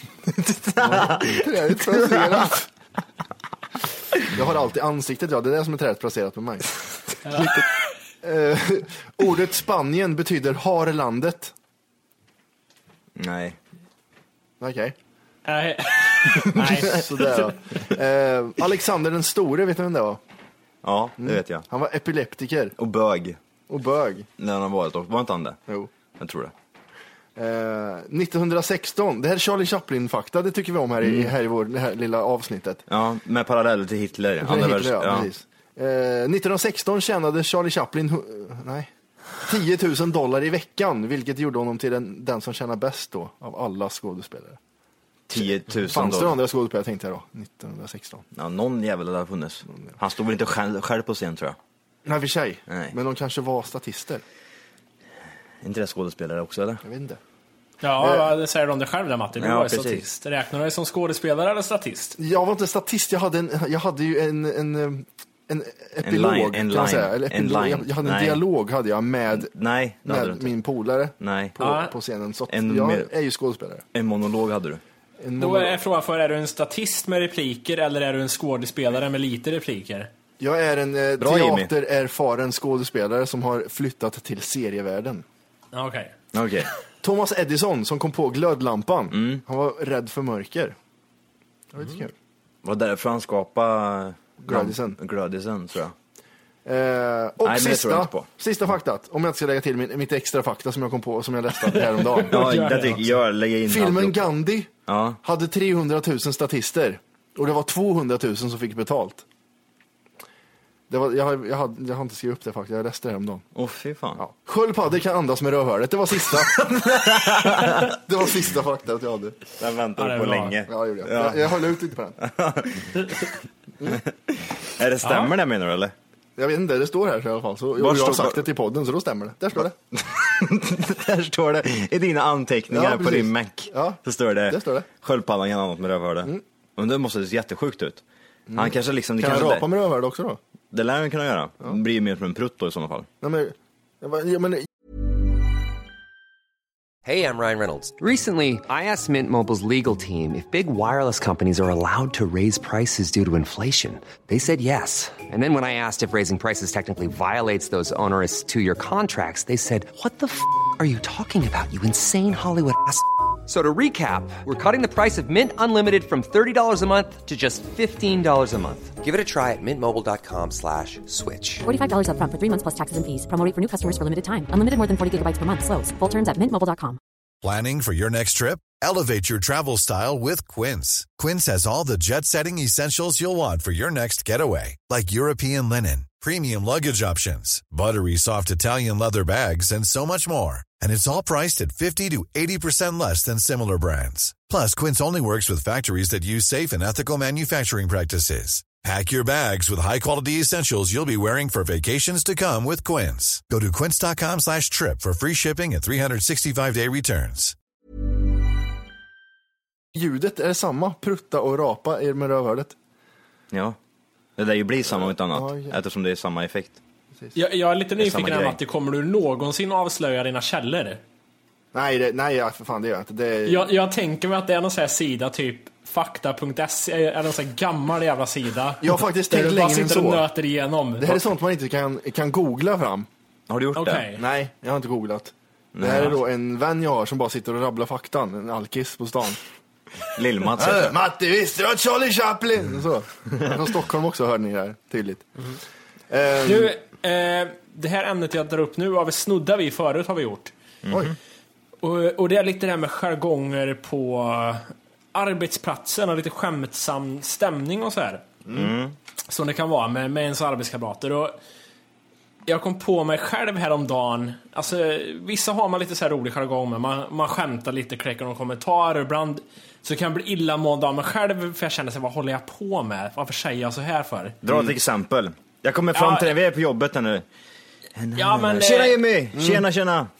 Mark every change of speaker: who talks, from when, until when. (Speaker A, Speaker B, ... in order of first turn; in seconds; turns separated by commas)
Speaker A: 0.3-2.5, Speaker B: 0.8-2.7, Speaker B: 4.3-6.7, Speaker C: 7.2-7.6, Speaker B: 8.2-11.5, Speaker A: 13.2-13.6, Speaker B: 14.6-14.9, Speaker C: 15.4-17.6, Speaker A: 16.6-16.9, Speaker B: 16.6-20.2, Speaker A: 20.8-21.6, Speaker B: 21.2-22.7, Speaker A: 22.8-23.4, Speaker B: 23.7-24.3, Speaker A: 24.4-25.6, Speaker A: 26.2-26.5, Speaker B: 27.4-32.8, Speaker A: 31.0-31.3, Speaker A: 32.9-35.3, Speaker B: 34.4-38.9, Speaker B: 39.4-44.6, Speaker A: 45.3-46.4, Speaker B: 45.4-48.2, Speaker A: 48.3-51.6, Speaker B: 52.0-54.2, Speaker A: 52.7-52.9, Speaker A: 55.6-56.8, Speaker B: 56.8-57.2, Speaker C: 57.8-62.2, Speaker B: 58.0-58.3, Speaker A: 59.4-60.0, Speaker B: 62.2-69.5, Speaker A: 66.0-68.4, Speaker A: 69.3-70.5, Speaker B: 70.0-73.8, Speaker A: 71.2-71.6, Speaker C: 71.6-71.9, Speaker A: 72.5-73.1, Speaker A: 73.9-74.8, Speaker B: 75.2-75.8, Speaker C: 75.4-80.1, Speaker B: 80.4-85.2, Speaker A: 81.2-81.7, Speaker C: 85.7-86.1, Speaker A: 86.3-86.7, Speaker B: 87.0-90.7, Speaker A: 89.1-89.4, Speaker B: 91.7-92.1, Speaker A: 92.6-95.9, Speaker B: 94.4-95.0, Speaker B: 96.6-102.5, Speaker A: 97.4-98.3, Speaker C: 101.7-103.0, Speaker A: 102.3-104.3, Speaker B: 103.6-104.7, Speaker A: 104.9-105.2, Speaker B: 105.2-109.2, Speaker B: 110.9-113.4, Speaker A: 113.5-114.2, Speaker B: 114.2-116.7, Speaker A: 116.6-117.9, Speaker B: 117.7-119.4, Speaker A: 119.6-121.7, Speaker C: 120.0-120.5, Speaker B: 120.7-122.2, Speaker A: 122.2-123.3, Speaker A: 123.9-125.9, Speaker C: 125.0-125.3, Speaker B: 126.4-129.7, Speaker A: 127.8-128.4, Speaker A: 129.9-139.7, Speaker B: 132.7-134.9, Speaker B: 138.5-140.4, Speaker A: 140.7-143.1, Speaker B: 143.2-144.7, Speaker D: 147.0-171.7, Speaker E: 171.6-177.0, Speaker F: 177.4-207.5, Speaker B: 209.9-212.7, Speaker A: 213.5-213.8, Speaker A: 214.4-216.8, Speaker B: 215.1-215.8, Speaker C: 217.3-221.0, Speaker A: 218.0-218.6, Speaker B: 221.7-223.7, Speaker C: 223.4-231.2, Speaker B: 228.8-230.2, Speaker B: 231.0-233.1, Speaker A: 233.5-234.1, Speaker C: 233.8-234.2, Speaker B: 234.2-239.4, Speaker A: 235.7-236.2, Speaker A: 240.1-240.9, Speaker B: 240.6-245.3, Speaker B: 246.1-246.8, Speaker C: 246.4-250.5, Speaker A: 250.8-251.1, Speaker B: 250.9-251.1, Speaker C: 251.8-258.2, Speaker B: 258.4-258.7, Speaker A: 258.5-258.9, Speaker C: 259.3-261.4, Speaker C: 262.5-274.4, Speaker A: 274.4-277.2, Speaker C: 275.9-276.3, Speaker A: 277.9-280.1, Speaker C: 278.1-279.0, Speaker B: 279.3-279.6